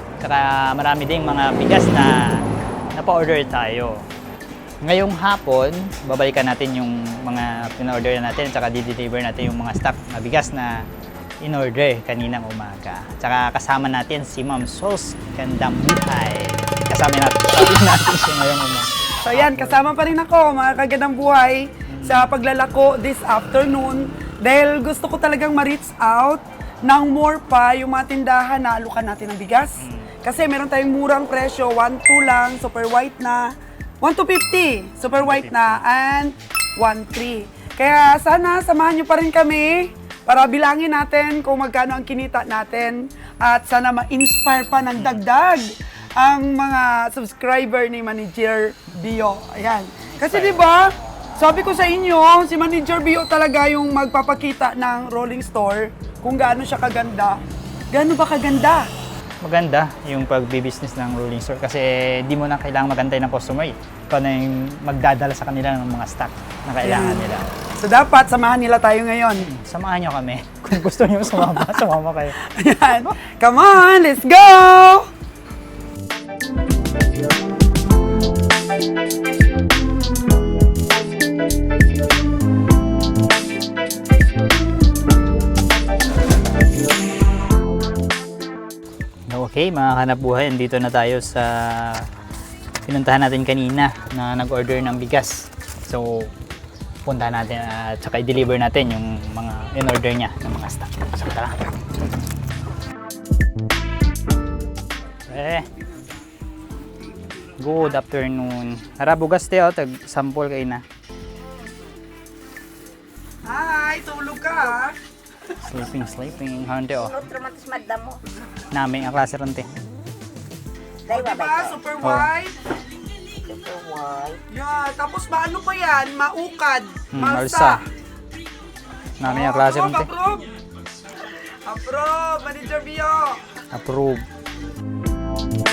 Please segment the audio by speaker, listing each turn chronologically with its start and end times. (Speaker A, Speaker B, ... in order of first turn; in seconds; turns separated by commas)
Speaker A: 0.2-4.0, Speaker A: 4.8-10.9, Speaker A: 11.4-19.8, Speaker B: 19.2-57.4, Speaker A: 21.9-22.3, Speaker A: 29.8-30.1, Speaker A: 35.2-35.5, Speaker A: 45.0-45.2, Speaker A: 50.0-51.1, Speaker B: 57.9-58.9, Speaker A: 59.4-67.5, Speaker B: 66.8-69.5, Speaker A: 69.4-72.4, Speaker B: 71.4-71.8, Speaker B: 72.4-75.1, Speaker A: 89.3-92.1, Speaker A: 92.8-96.3, Speaker A: 97.0-101.8, Speaker A: 105.3-105.7, Speaker A: 107.6-110.8, Speaker B: 113.4-115.0, Speaker A: 115.6-117.1, Speaker C: 117.0-118.2, Speaker A: 118.7-119.7, Speaker C: 121.1-121.8, Speaker B: 121.1-122.5, Speaker A: 122.0-122.3, Speaker C: 123.4-124.4, Speaker B: 124.5-127.8, Speaker A: 127.1-127.8, Speaker A: 129.2-130.1, Speaker B: 129.2-130.5, Speaker B: 131.2-133.5, Speaker A: 133.7-134.2